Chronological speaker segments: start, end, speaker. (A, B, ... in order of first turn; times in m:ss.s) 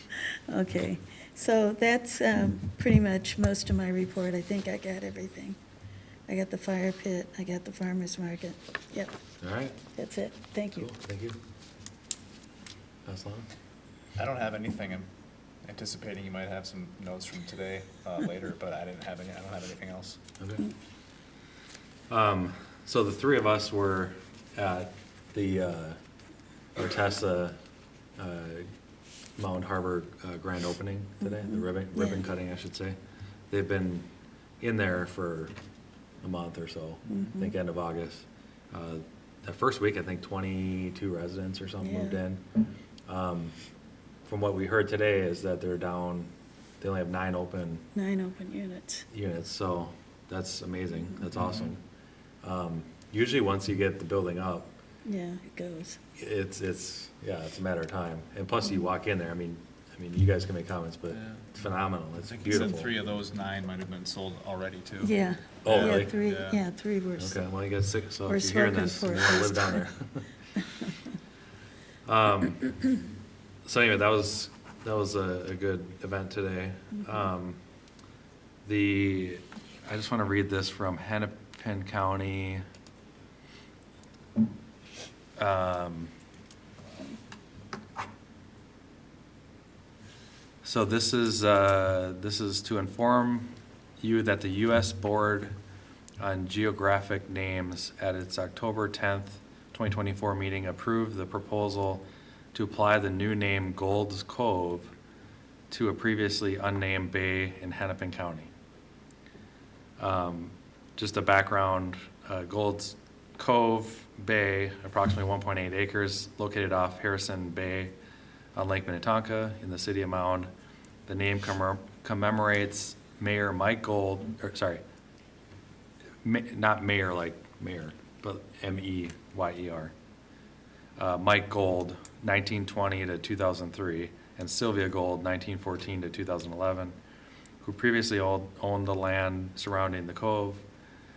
0:00.5-0:05.6 A
0:06.3-0:09.1 A
0:09.4-0:09.8 B
0:09.9-0:10.9 A
0:10.7-0:11.4 B
0:13.1-0:13.5 B
0:14.2-0:15.1 C
0:15.6-0:20.2 C
0:20.4-0:20.7 B
0:22.1-0:26.0 B
0:26.8-0:27.6 B
0:28.2-0:28.7 B
0:29.4-0:33.0 B
0:31.2-0:32.3 A
0:33.5-0:34.1 B
0:34.6-0:35.5 B
0:36.2-0:42.4 B
0:37.1-0:37.6 A
0:41.8-0:42.2 A
0:43.1-0:43.6 B
0:44.2-0:47.8 B
0:48.0-0:49.1 A
0:49.1-0:51.8 B
0:52.4-0:54.7 B
0:55.0-0:56.0 A
0:56.2-1:02.9 B
1:02.2-1:06.6 C
1:05.0-1:07.4 A
1:05.6-1:06.2 B
1:07.2-1:10.3 B
1:08.3-1:09.9 A
1:12.1-1:12.7 B
1:13.7-1:17.6 B
1:18.6-1:22.6 B
1:25.4-1:26.1 B
1:30.6-1:35.5 B
1:36.2-1:44.9 B
1:45.7-1:48.5 B
1:50.0-1:57.9 B
1:58.6-2:00.5 B
2:01.1-2:04.8 B
2:06.2-2:09.9 B
2:11.0-2:17.0 B
2:17.6-2:20.6 B